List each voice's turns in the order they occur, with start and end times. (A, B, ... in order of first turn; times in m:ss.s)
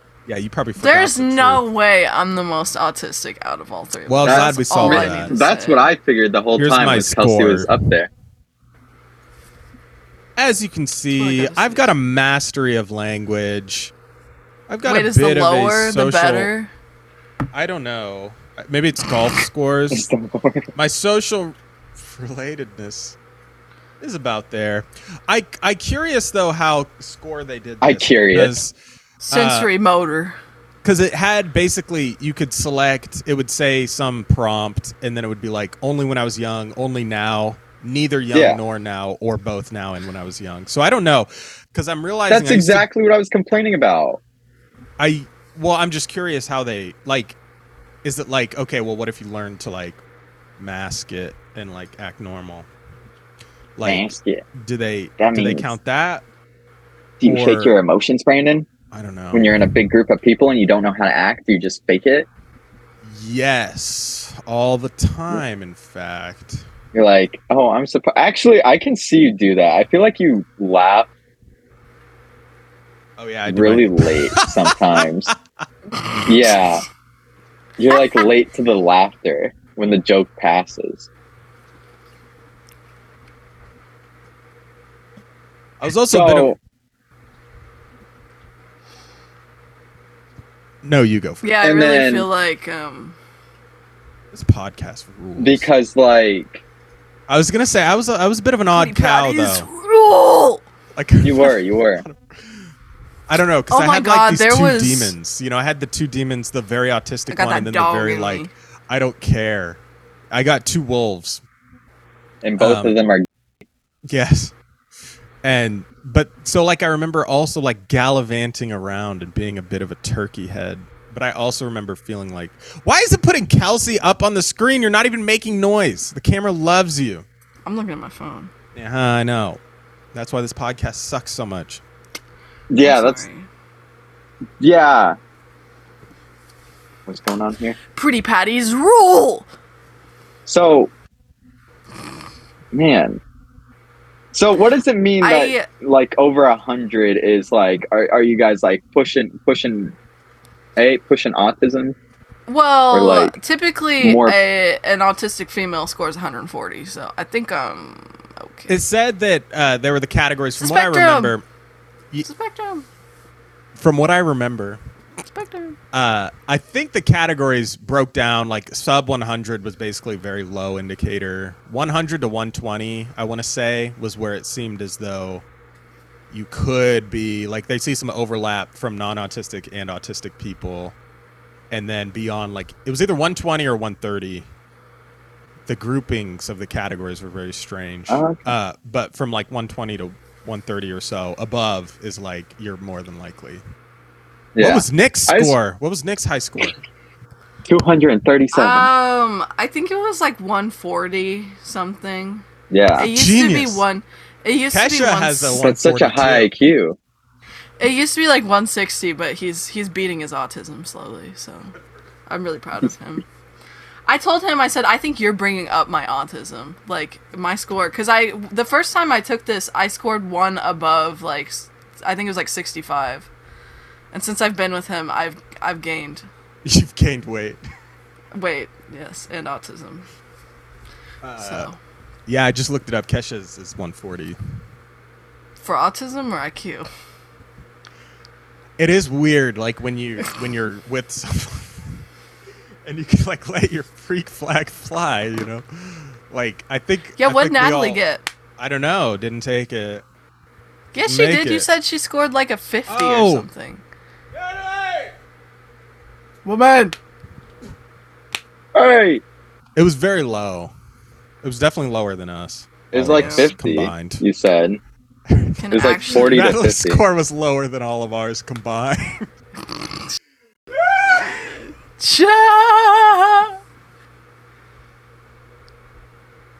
0:00.3-0:01.6 A
0:00.8-0:05.9 B
0:04.1-0:05.4 A
0:04.2-0:08.1 C
0:06.6-0:07.8 A
0:10.4-0:13.9 A
0:11.1-0:12.0 B
0:14.7-0:16.5 A
0:14.8-0:16.7 B
0:17.5-0:20.0 A
0:19.9-0:20.7 C
0:20.7-0:23.2 A
0:24.0-0:28.7 A
0:27.8-0:28.6 C
0:29.2-0:30.4 B
0:29.3-0:29.7 A
0:30.8-0:42.9 A
0:38.3-0:38.6 C
0:42.3-0:44.2 C
0:45.0-0:47.4 A
0:48.0-0:50.0 A
0:50.6-0:52.7 A
0:53.8-0:54.0 A
0:53.8-0:54.4 C
0:54.6-0:56.2 A
0:55.2-0:55.7 C
0:57.2-0:58.7 C
0:57.2-0:57.8 A
0:58.9-0:59.6 A
0:59.3-1:02.3 C
1:03.0-1:06.6 A
1:06.9-1:11.1 C
1:13.2-1:15.4 A
1:13.5-1:15.3 C
1:16.2-1:16.8 C
1:17.8-1:21.1 C
1:17.9-1:18.3 B
1:25.8-1:26.5 A
1:26.1-1:26.6 C
1:30.8-1:31.4 A
1:31.4-1:33.2 B
1:31.6-1:32.3 C
1:34.3-1:35.7 A
1:35.4-1:36.6 C
1:37.3-1:39.7 A
1:38.7-1:40.6 B
1:40.9-1:42.6 A
1:41.2-1:42.0 C
1:43.3-1:49.8 A
1:43.7-1:45.1 B
1:47.3-1:48.5 B
1:50.3-1:51.4 A
1:52.4-1:53.2 C
1:52.6-1:52.9 A
1:54.1-1:54.5 A
1:55.4-2:07.2 A
2:07.6-2:08.5 B
2:08.7-2:09.6 A
2:10.1-2:11.8 A
2:12.7-2:13.2 C
2:12.8-2:13.5 B
2:14.6-2:15.2 C
2:17.1-2:17.8 C
2:17.9-2:19.5 B
2:20.4-2:20.9 C
2:22.7-2:23.2 C
2:24.3-2:29.9 C
2:25.2-2:25.7 B
2:30.8-2:32.0 C
2:32.5-2:38.7 B
2:32.9-2:33.4 C
2:34.0-2:34.4 C
2:38.7-2:41.4 A
2:40.6-2:41.4 B
2:42.2-2:42.8 B
2:43.8-2:44.8 A
2:45.3-2:45.8 B
2:45.9-2:55.4 A
2:56.3-3:01.0 A
3:01.7-3:04.5 A
3:05.6-3:13.6 A
3:08.1-3:08.5 C
3:14.5-3:15.5 C
3:14.6-3:16.7 A
3:17.7-3:18.9 C
3:18.5-3:22.4 B
3:22.7-3:23.1 C
3:23.0-3:25.6 B
3:23.0-3:23.8 A
3:24.7-3:26.5 A
3:25.6-3:27.0 C
3:27.8-3:31.7 B
3:32.3-3:33.2 B
3:34.1-3:43.3 B
3:44.1-3:46.2 B
3:46.6-3:47.6 A
3:48.3-3:50.1 B
3:51.2-3:51.7 A
3:51.4-3:51.8 B
3:52.2-3:54.4 A
3:55.6-3:56.9 B
3:58.8-4:02.0 A
4:02.8-4:08.0 A
4:07.2-4:08.3 B
4:08.6-4:10.0 A
4:10.9-4:13.8 B
4:11.0-4:11.7 A
4:12.9-4:13.5 A
4:14.3-4:15.1 A
4:16.4-4:17.0 B
4:18.7-4:19.2 C
4:19.8-4:20.7 A
4:21.4-4:24.2 A
4:22.9-4:24.8 C
4:23.1-4:23.5 B
4:25.3-4:29.3 A
4:25.6-4:26.4 B
4:25.7-4:27.0 C
4:32.0-4:33.5 B